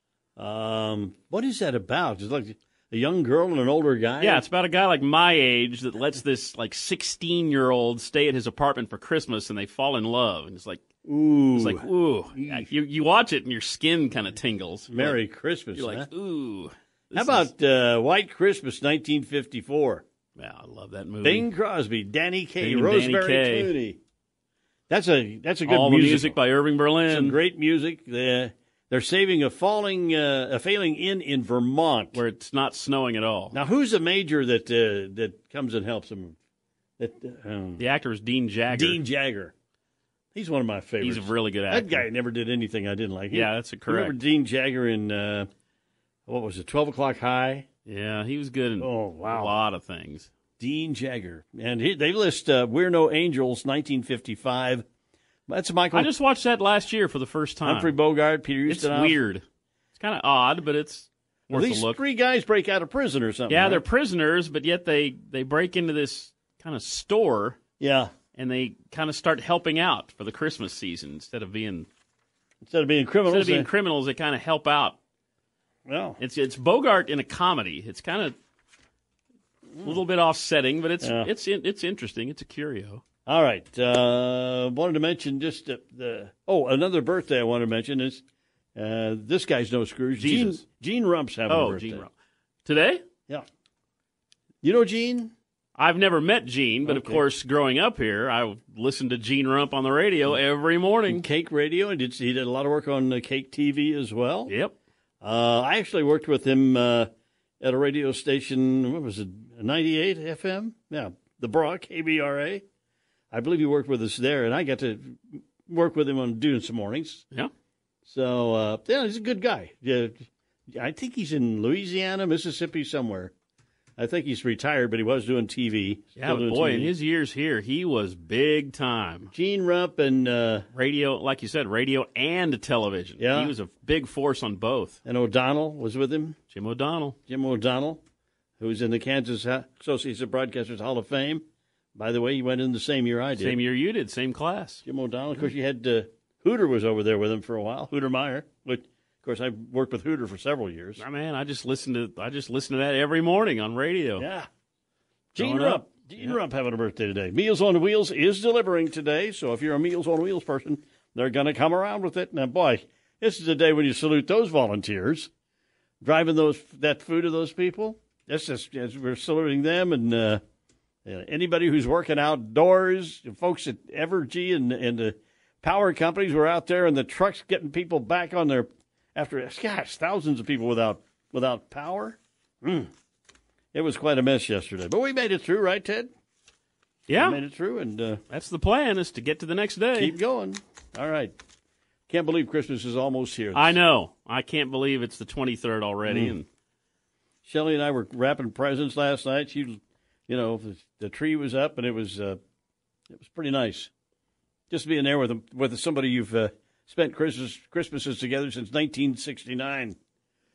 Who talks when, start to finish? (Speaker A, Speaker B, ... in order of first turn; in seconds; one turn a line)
Speaker A: 0.4-4.5
Speaker B: 4.2-10.8
Speaker A: 11.1-12.7
Speaker B: 11.5-15.2
Speaker A: 14.9-16.1
Speaker B: 15.8-17.5
Speaker A: 17.1-20.0
Speaker B: 20.4-21.5
Speaker A: 21.2-24.0
Speaker B: 22.6-23.7
Speaker A: 24.9-26.4
Speaker B: 25.7-27.4
Speaker A: 27.1-32.2
Speaker B: 32.1-33.5
Speaker A: 33.5-36.4
Speaker A: 37.0-37.9
Speaker B: 37.8-39.0
Speaker A: 38.7-39.5
Speaker A: 40.3-45.5
Speaker B: 41.0-42.1
Speaker B: 43.3-44.2
Speaker A: 46.3-47.7
Speaker B: 47.9-50.3
Speaker A: 48.8-49.5
Speaker A: 50.6-54.9
Speaker A: 55.5-56.1
Speaker B: 55.9-58.0
Speaker A: 57.6-59.2
Speaker B: 58.7-59.4
Speaker B: 60.0-62.0
Speaker A: 61.5-63.8
Speaker B: 63.5-67.6
Speaker A: 67.8-68.1
Speaker B: 68.3-71.9
Speaker A: 72.6-73.7
Speaker B: 73.3-75.0
Speaker A: 75.9-76.2
Speaker B: 76.2-78.4
Speaker B: 79.8-83.0
Speaker A: 81.0-81.3
Speaker A: 83.3-88.2
Speaker A: 88.8-92.1
Speaker B: 90.2-90.6
Speaker B: 91.5-92.1
Speaker B: 92.7-93.0
Speaker A: 94.6-95.3
Speaker B: 95.8-101.2
Speaker A: 96.9-97.2
Speaker A: 101.1-104.5
Speaker B: 104.5-104.7
Speaker A: 105.2-107.1
Speaker A: 107.6-112.6
Speaker A: 113.3-117.2
Speaker A: 118.0-123.3
Speaker A: 124.0-126.9
Speaker B: 126.2-129.3
Speaker A: 129.3-130.7
Speaker B: 130.7-135.0
Speaker A: 133.2-133.5
Speaker A: 135.1-136.4
Speaker B: 136.5-137.2
Speaker A: 137.3-138.0
Speaker A: 138.6-143.6
Speaker B: 143.4-144.8
Speaker A: 144.8-151.0
Speaker B: 151.0-154.2
Speaker A: 154.2-154.5
Speaker A: 155.3-165.3
Speaker B: 155.4-156.4
Speaker A: 166.0-170.4
Speaker A: 171.1-182.9
Speaker A: 183.7-186.1
Speaker B: 187.1-187.4
Speaker A: 187.1-188.2
Speaker B: 188.3-190.2
Speaker A: 190.0-191.3
Speaker A: 192.1-193.8
Speaker B: 193.5-196.5
Speaker A: 196.1-196.4
Speaker A: 197.4-202.4
Speaker A: 203.1-203.9
Speaker A: 204.7-210.0